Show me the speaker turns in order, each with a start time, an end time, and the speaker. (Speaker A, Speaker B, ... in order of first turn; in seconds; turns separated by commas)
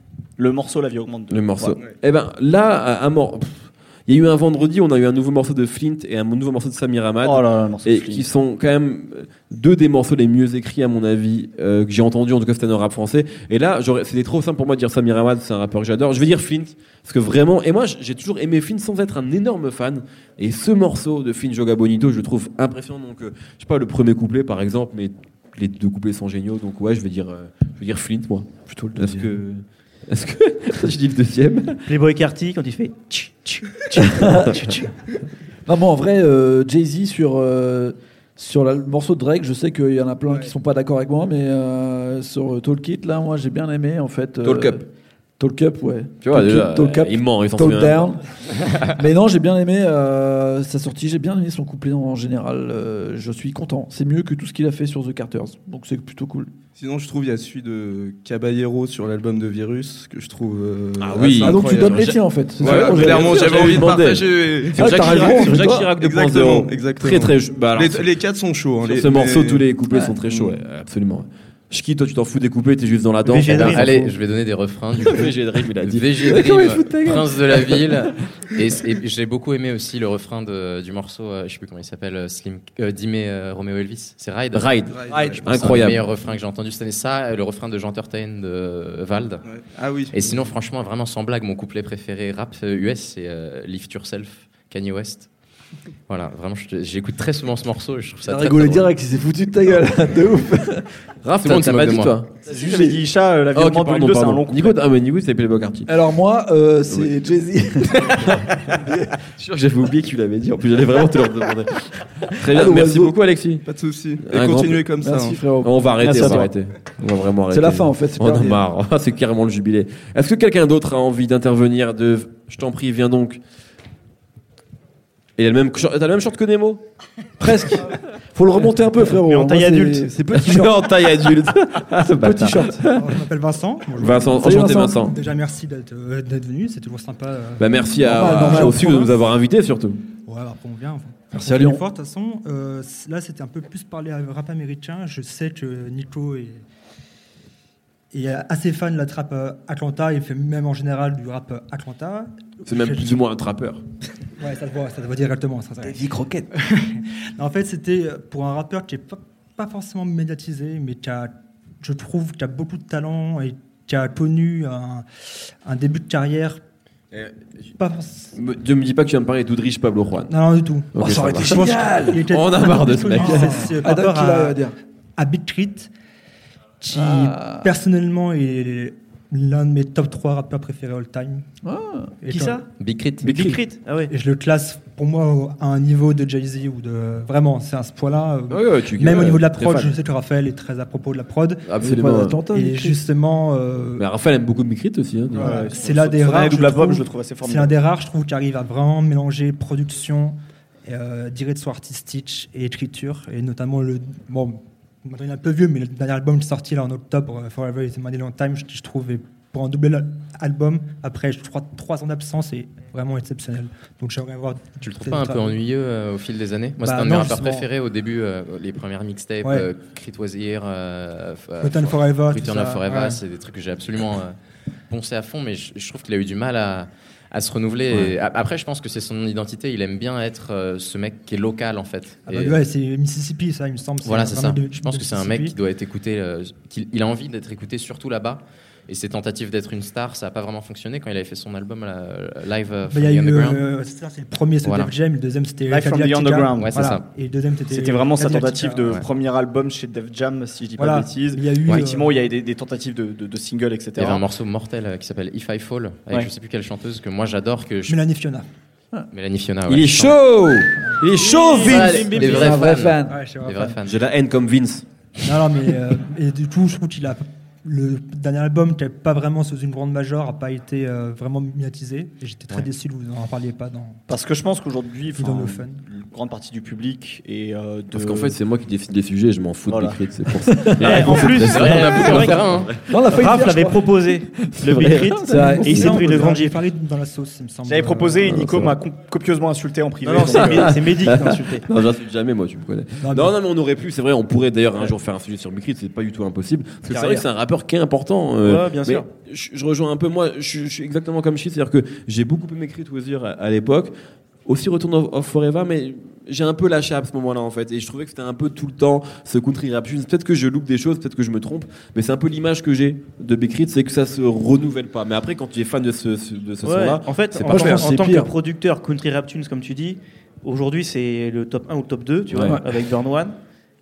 Speaker A: 0.4-1.8, Speaker B: 1.3-31.8, Speaker A: 7.2-8.3, Speaker C: 28.7-29.4, Speaker D: 31.9-34.9, Speaker C: 34.0-34.7, Speaker C: 35.7-44.9, Speaker B: 44.4-44.8, Speaker C: 45.4-48.2, Speaker B: 46.2-48.0, Speaker C: 48.9-56.5, Speaker E: 56.8-69.7, Speaker B: 61.0-68.1, Speaker C: 61.4-63.8, Speaker C: 64.7-65.9, Speaker B: 68.8-74.1, Speaker E: 70.3-70.6, Speaker D: 73.2-74.1, Speaker F: 73.4-89.4, Speaker B: 75.0-78.0, Speaker B: 84.5-86.1, Speaker E: 84.9-85.4, Speaker E: 89.5-90.3, Speaker F: 90.1-95.3, Speaker F: 96.1-98.9, Speaker C: 98.2-100.9, Speaker B: 101.2-102.3, Speaker F: 101.4-102.2, Speaker A: 102.5-104.8, Speaker C: 102.5-103.0, Speaker B: 103.5-105.9, Speaker C: 105.9-109.1, Speaker B: 108.0-108.5, Speaker B: 109.4-113.7, Speaker C: 112.5-113.1, Speaker E: 113.6-115.4, Speaker B: 114.2-114.9, Speaker C: 115.0-116.5, Speaker B: 115.6-123.4, Speaker C: 117.5-118.6, Speaker B: 125.4-126.8, Speaker C: 127.4-131.0, Speaker D: 129.1-130.1, Speaker B: 130.3-133.1, Speaker C: 132.0-132.8, Speaker G: 132.9-139.2, Speaker B: 134.0-135.2, Speaker C: 134.4-135.0, Speaker B: 137.6-140.0, Speaker C: 138.0-139.0, Speaker G: 140.2-146.6, Speaker C: 141.3-141.8, Speaker G: 148.1-153.2, Speaker B: 152.7-153.8, Speaker G: 154.4-165.1, Speaker C: 155.8-156.5, Speaker G: 165.6-166.6, Speaker G: 167.8-168.3, Speaker B: 168.3-170.3, Speaker G: 170.3-174.6, Speaker B: 170.9-173.8, Speaker C: 171.0-172.2, Speaker C: 173.2-174.7, Speaker G: 175.2-175.9, Speaker G: 176.8-181.5, Speaker C: 176.9-177.7, Speaker C: 181.6-182.2, Speaker G: 182.2-182.6, Speaker D: 182.3-182.7, Speaker F: 182.8-183.6, Speaker B: 183.2-183.6, Speaker D: 183.3-184.1, Speaker G: 184.1-191.7, Speaker B: 188.5-189.9, Speaker B: 191.7-192.4, Speaker C: 191.8-193.0, Speaker G: 192.5-194.1, Speaker B: 194.0-195.8, Speaker A: 195.3-197.8, Speaker G: 195.3-215.6, Speaker F: 214.8-224.4, Speaker G: 216.8-217.7, Speaker G: 219.4-219.7, Speaker G: 221.6-223.2, Speaker F: 224.9-232.6, Speaker G: 232.3-235.6, Speaker F: 234.0-243.6, Speaker G: 242.9-248.9, Speaker F: 244.6-244.9, Speaker A: 245.7-246.9, Speaker F: 246.6-247.0, Speaker A: 247.7-254.2, Speaker G: 250.8-252.3, Speaker F: 254.0-258.0, Speaker G: 257.9-258.5, Speaker F: 259.1-260.2, Speaker B: 259.7-262.3, Speaker D: 261.2-262.6, Speaker F: 261.6-264.0, Speaker G: 262.1-262.4, Speaker C: 262.2-263.2, Speaker G: 263.1-263.8, Speaker B: 263.8-264.8, Speaker G: 265.2-274.1, Speaker A: 274.1-278.4, Speaker G: 275.2-275.8, Speaker B: 277.9-282.8, Speaker A: 279.7-280.0, Speaker C: 280.6-281.0, Speaker D: 280.8-286.6, Speaker F: 281.0-282.7, Speaker C: 282.8-283.9, Speaker B: 284.4-285.5, Speaker C: 285.2-286.3, Speaker G: 285.3-288.4, Speaker A: 287.7-291.0, Speaker B: 288.3-288.7, Speaker D: 290.0-291.7, Speaker B: 290.2-303.9, Speaker G: 293.0-293.3, Speaker C: 296.9-297.2, Speaker D: 298.4-299.1, Speaker B: 304.5-317.9, Speaker D: 316.6-323.4, Speaker C: 317.4-318.3, Speaker B: 322.3-322.6, Speaker C: 322.3-322.8